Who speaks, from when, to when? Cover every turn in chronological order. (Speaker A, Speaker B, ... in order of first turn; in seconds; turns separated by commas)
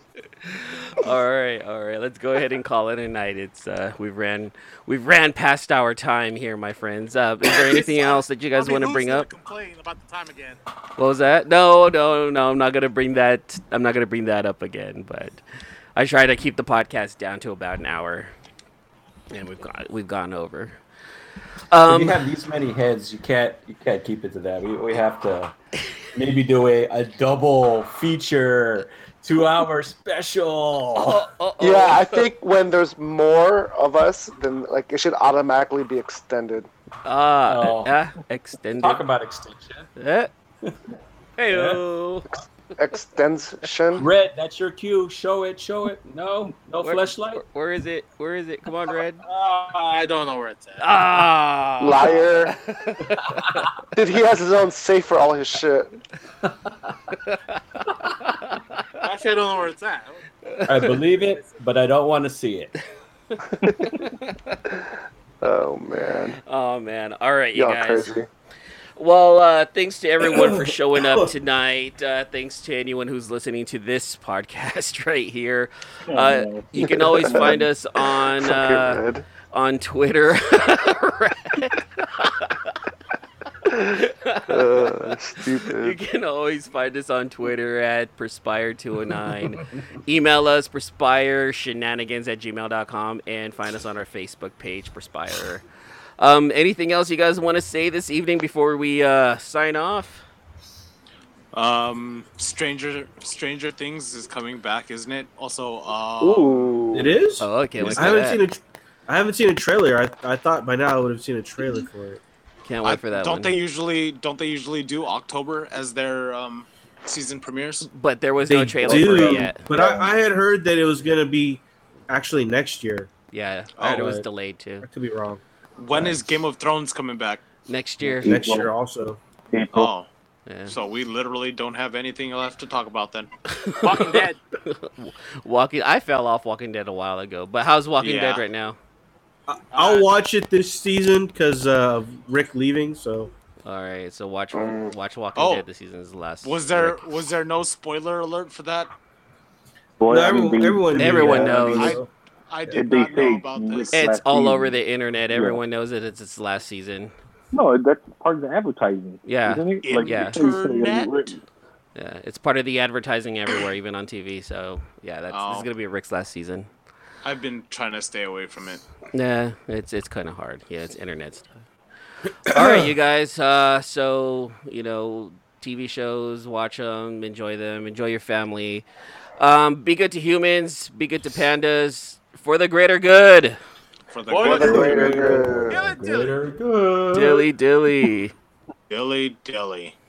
Speaker A: 0.4-9.3, Speaker B: 7.5-10.6, Speaker A: 11.0-15.4, Speaker A: 16.0-18.3, Speaker A: 19.3-20.8, Speaker A: 21.7-22.2, Speaker C: 21.9-25.6, Speaker C: 26.1-31.2, Speaker A: 30.9-32.3, Speaker D: 31.6-36.7, Speaker A: 37.0-39.1, Speaker C: 37.5-38.0, Speaker C: 38.8-39.9, Speaker A: 40.0-40.3, Speaker A: 41.4-42.4, Speaker C: 41.5-41.8, Speaker D: 42.8-44.1, Speaker C: 44.0-47.4, Speaker A: 46.8-49.2, Speaker B: 49.2-50.9, Speaker A: 50.8-53.7, Speaker D: 51.8-52.5, Speaker D: 53.9-55.9, Speaker C: 56.4-56.7, Speaker A: 57.2-58.6, Speaker B: 59.0-60.2, Speaker C: 60.7-62.7, Speaker A: 63.4-64.6, Speaker D: 65.4-66.4, Speaker A: 66.5-68.1, Speaker D: 67.5-68.3, Speaker A: 69.0-82.7, Speaker E: 76.1-77.6, Speaker D: 77.0-77.6, Speaker D: 78.3-79.2, Speaker A: 83.9-95.6, Speaker D: 84.5-86.0, Speaker A: 96.2-100.3, Speaker F: 101.5-106.9, Speaker D: 106.2-107.2, Speaker G: 106.9-112.2, Speaker A: 107.4-108.4, Speaker A: 112.7-113.6, Speaker F: 112.8-117.9, Speaker A: 117.9-119.7, Speaker G: 118.5-123.1, Speaker E: 119.7-120.1, Speaker A: 123.3-124.9, Speaker G: 123.8-124.2, Speaker G: 124.8-125.4, Speaker F: 125.8-127.4, Speaker G: 125.9-126.2, Speaker A: 127.7-128.5, Speaker E: 128.2-128.7, Speaker G: 128.2-129.2, Speaker E: 129.5-129.9, Speaker F: 129.7-130.1, Speaker A: 130.5-130.8, Speaker F: 130.7-133.3, Speaker A: 133.5-138.8, Speaker B: 133.8-134.4, Speaker F: 138.0-138.5, Speaker G: 139.5-143.3, Speaker B: 139.7-140.1, Speaker A: 143.7-147.0, Speaker D: 144.5-144.9, Speaker F: 145.4-145.7, Speaker F: 146.4-148.9, Speaker E: 150.0-151.7, Speaker G: 150.1-152.1, Speaker A: 150.9-152.0, Speaker F: 151.6-154.2, Speaker E: 152.7-154.8, Speaker A: 153.9-157.1, Speaker E: 155.3-155.6, Speaker E: 157.5-161.4, Speaker A: 159.2-160.4, Speaker F: 159.8-161.3, Speaker A: 162.0-166.7, Speaker F: 165.3-165.7, Speaker F: 167.2-168.8, Speaker A: 169.1-171.5, Speaker A: 172.5-178.8, Speaker C: 172.5-172.9, Speaker A: 179.4-183.6, Speaker F: 184.1-185.2, Speaker B: 184.3-185.1, Speaker C: 184.3-187.5, Speaker D: 184.4-185.9, Speaker B: 185.7-186.3, Speaker A: 187.1-188.3, Speaker F: 188.9-190.0